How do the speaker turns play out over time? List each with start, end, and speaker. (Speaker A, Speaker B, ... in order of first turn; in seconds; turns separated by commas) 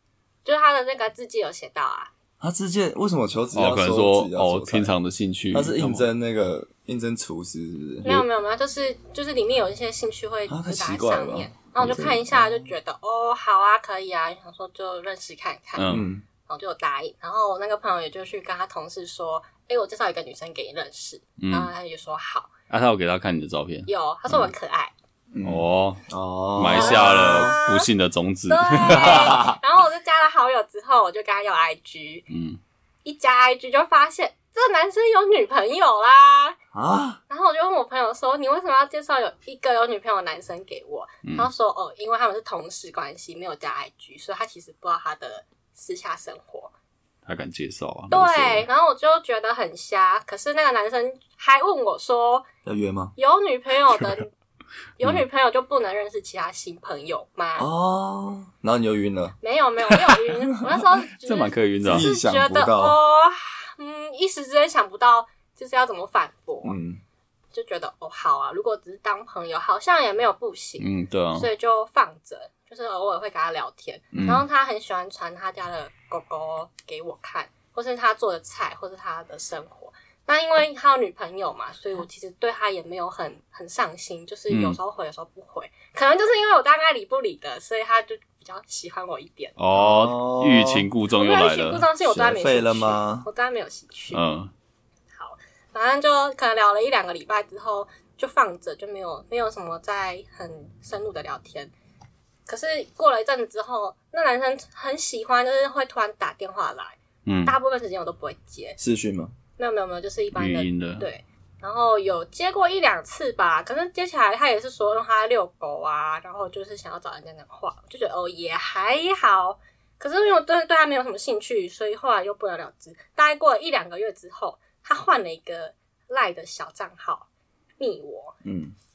Speaker A: 0.4-2.1, Speaker B: 2.4-4.9, Speaker C: 3.5-6.0, Speaker B: 5.5-8.2, Speaker A: 8.0-22.5, Speaker B: 10.5-12.7, Speaker C: 15.8-16.1, Speaker B: 15.9-16.2, Speaker C: 21.4-21.7, Speaker C: 22.7-23.9, Speaker A: 23.9-24.9, Speaker B: 25.3-27.6, Speaker C: 25.4-26.0, Speaker C: 26.6-29.4, Speaker A: 26.7-27.9, Speaker A: 28.5-32.3, Speaker B: 28.9-29.6, Speaker C: 32.3-32.6, Speaker A: 33.0-36.6, Speaker B: 36.7-37.2, Speaker A: 37.3-46.7, Speaker C: 41.2-41.5, Speaker C: 47.2-48.7, Speaker A: 48.1-52.5, Speaker B: 52.6-53.1, Speaker A: 53.1-54.3, Speaker A: 55.0-57.7, Speaker B: 57.6-59.4, Speaker A: 59.4-66.8, Speaker C: 61.1-62.1, Speaker B: 61.8-63.0, Speaker B: 66.6-67.0, Speaker A: 67.5-89.6, Speaker C: 70.8-71.5, Speaker B: 74.1-74.4, Speaker C: 84.5-84.8, Speaker C: 89.6-91.8, Speaker B: 89.7-90.9, Speaker A: 91.2-94.2, Speaker B: 92.0-93.3, Speaker C: 94.1-94.5, Speaker A: 95.1-101.7, Speaker A: 102.5-108.8, Speaker C: 107.2-107.5, Speaker B: 108.8-109.3, Speaker A: 109.6-127.3, Speaker C: 110.3-111.1, Speaker A: 127.8-128.4, Speaker B: 128.4-128.7